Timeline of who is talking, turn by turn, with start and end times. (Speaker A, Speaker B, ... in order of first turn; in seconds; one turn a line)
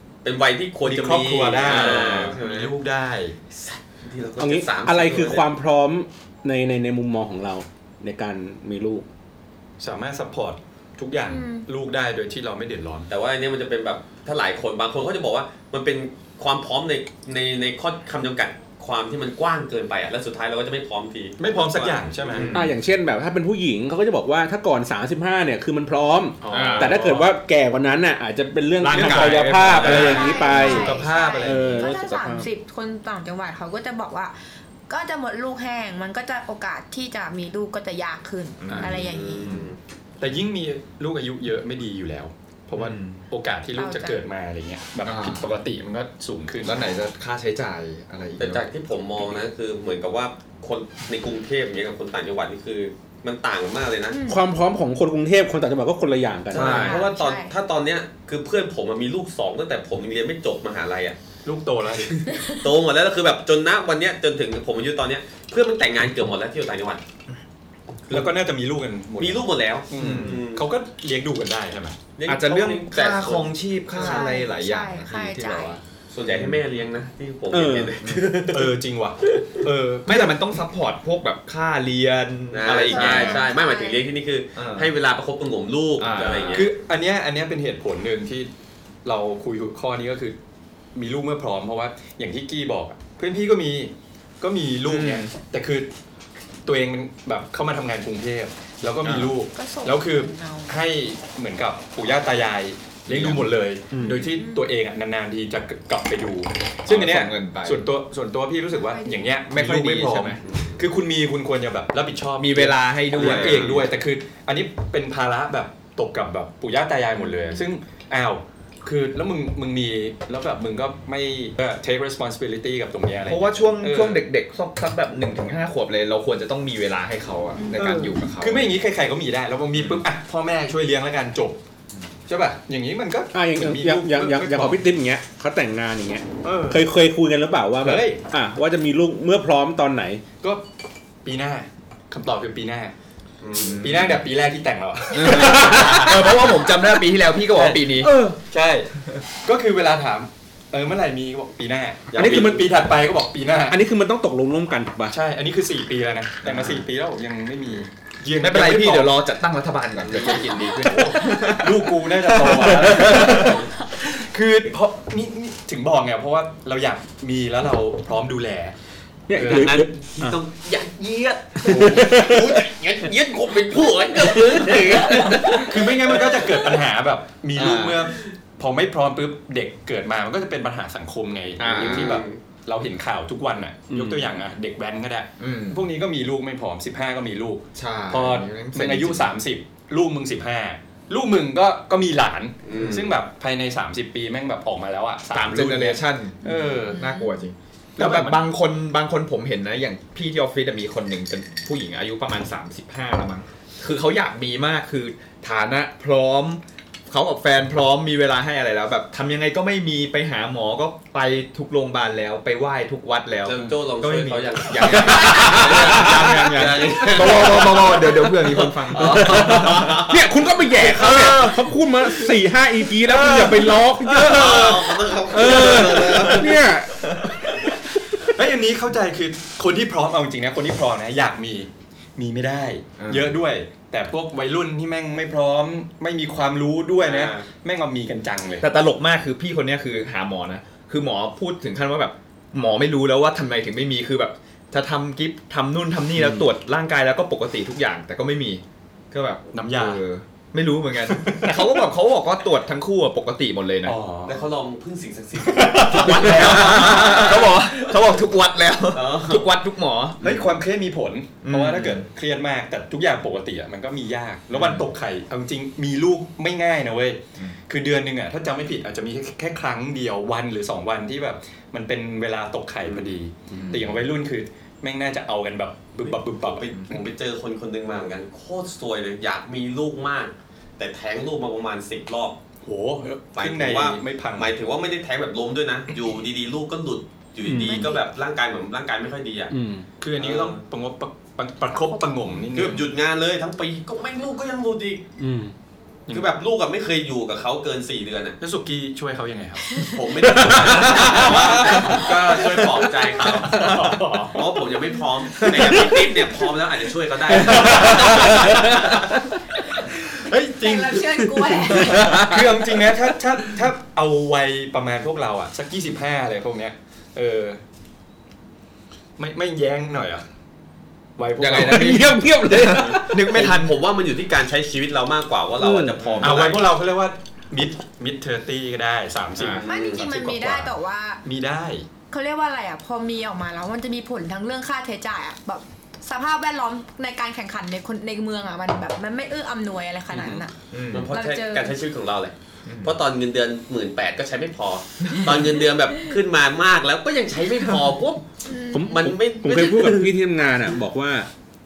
Speaker A: 0.2-2.7
Speaker B: 0.8-3.4
Speaker C: 1.7-2.3
Speaker A: 3.5-5.5
Speaker D: 4.4-9.1
Speaker B: 9.8-13.1
Speaker E: 11.2-11.7
Speaker A: 13.1-22.4
Speaker B: 21.4-22.5
Speaker C: 22.3-22.8
Speaker D: 22.5-32.5
Speaker B: 26.4-27.3
Speaker C: 26.5-27.0
Speaker C: 28.8-30.9
Speaker B: 28.9-31.9
Speaker A: 29.6-30.2
Speaker E: 29.9-34.4
Speaker E: 34.9-39.5
Speaker C: 38.6-39.7
Speaker A: 39.0-39.8
Speaker B: 40.2-46.8
Speaker C: 42.7-43.2
Speaker E: 43.7-44.2
Speaker C: 45.0-45.5
Speaker C: 46.6-48.7
Speaker A: 48.4-54.2
Speaker E: 54.1-54.4
Speaker D: 54.2-56.9
Speaker A: 56.5-61.2
Speaker C: 56.5-57.1
Speaker E: 56.6-57.5
Speaker B: 61.4-62.2
Speaker A: 62.4-67.0
Speaker B: 68.1-72.0
Speaker A: 69.2-70.7
Speaker C: 70.0-70.4
Speaker A: 72.2-74.1
Speaker C: 72.3-76.6
Speaker E: 74.0-75.8
Speaker A: 76.1-78.7
Speaker D: 77.5-78.0
Speaker C: 78.0-78.3
Speaker B: 78.5-80.4
Speaker C: 80.0-83.5
Speaker A: 82.5-86.7
Speaker E: 82.8-84.0
Speaker C: 84.5-84.9
Speaker C: 86.0-86.7
Speaker B: 86.5-88.5
Speaker B: 89.0-90.4
Speaker B: 90.9-95.9
Speaker C: 94.8-95.3
Speaker B: 96.7-124.2
Speaker C: 99.0-99.4
Speaker E: 99.5-100.8
Speaker C: 103.1-103.5
Speaker E: 104.1-104.7
Speaker C: 106.9-107.8
Speaker E: 108.9-109.3
Speaker C: 109.5-110.4
Speaker A: 110.4-110.8
Speaker C: 112.4-113.9
Speaker A: 113.1-113.8
Speaker E: 117.1-117.7
Speaker C: 123.2-128.7
Speaker E: 127.5-128.0
Speaker B: 127.7-131.6
Speaker C: 129.7-130.0
Speaker B: 132.3-134.8
Speaker D: 133.3-140.2
Speaker B: 136.4-136.8
Speaker B: 137.8-138.2
Speaker B: 141.2-142.9
Speaker A: 143.4-143.9
Speaker C: 143.5-144.2
Speaker B: 143.8-153.8
Speaker C: 145.1-148.3
Speaker D: 152.1-152.7
Speaker A: 152.2-152.5
Speaker D: 153.7-155.1
Speaker B: 155.1-159.2
Speaker C: 156.4-156.8
Speaker C: 158.3-163.7
Speaker A: 160.0-161.2
Speaker B: 160.8-168.7
Speaker D: 169.3-170.3
Speaker B: 169.3-169.8
Speaker A: 169.4-175.9
Speaker B: 171.7-172.1
Speaker D: 171.7-172.5
Speaker B: 175.5-197.0
Speaker C: 177.5-178.0
Speaker C: 181.6-182.2
Speaker A: 181.7-182.4
Speaker D: 183.9-184.3
Speaker C: 185.4-185.8
Speaker C: 187.7-189.3
Speaker A: 192.7-193.1
Speaker C: 195.3-220.1
Speaker E: 196.5-197.3
Speaker B: 198.0-198.4
Speaker A: 213.4-220.2
Speaker B: 215.5-216.1
Speaker D: 219.1-226.9
Speaker B: 223.0-224.8
Speaker A: 224.2-226.5
Speaker B: 225.4-226.4
Speaker C: 227.1-227.3
Speaker B: 228.2-238.7
Speaker C: 233.0-233.4
Speaker A: 237.0-237.5
Speaker C: 238.6-254.0
Speaker B: 246.2-246.4
Speaker B: 249.5-250.0
Speaker B: 251.1-251.9
Speaker B: 253.8-254.4
Speaker A: 254.2-257.9
Speaker B: 255.4-257.3
Speaker C: 256.0-260.5
Speaker A: 258.9-259.4
Speaker B: 260.2-277.0
Speaker C: 261.4-262.1
Speaker C: 264.5-264.9
Speaker A: 272.8-273.1
Speaker C: 273.5-274.0
Speaker A: 276.1-282.4
Speaker B: 282.6-284.5
Speaker A: 283.3-289.5
Speaker D: 287.4-287.9
Speaker E: 287.5-288.1
Speaker D: 289.5-289.9
Speaker B: 290.0-292.9
Speaker A: 290.2-290.6
Speaker E: 291.7-292.1
Speaker A: 292.5-295.0
Speaker D: 295.2-295.5
Speaker A: 296.1-298.4
Speaker B: 298.4-299.9
Speaker A: 299.8-309.0
Speaker D: 300.4-301.1
Speaker B: 301.0-302.0
Speaker B: 303.2-304.5
Speaker C: 303.5-304.0
Speaker C: 305.4-305.8
Speaker B: 305.5-305.8
Speaker B: 307.4-308.5
Speaker B: 310.1-317.6
Speaker E: 310.6-312.0
Speaker C: 311.9-312.4
Speaker B: 319.2-320.2
Speaker B: 321.2-322.6
Speaker C: 321.4-323.9
Speaker D: 321.5-323.2
Speaker A: 323.0-326.7
Speaker D: 325.6-326.1
Speaker C: 326.0-326.3
Speaker B: 326.2-330.7
Speaker A: 329.4-330.1
Speaker E: 329.6-331.2
Speaker B: 331.2-331.9
Speaker E: 332.1-340.5
Speaker B: 340.1-340.4
Speaker C: 340.7-341.1
Speaker A: 340.9-348.2
Speaker E: 341.1-341.8
Speaker C: 342.6-343.0
Speaker E: 348.4-349.0
Speaker D: 348.7-351.3
Speaker A: 348.8-350.1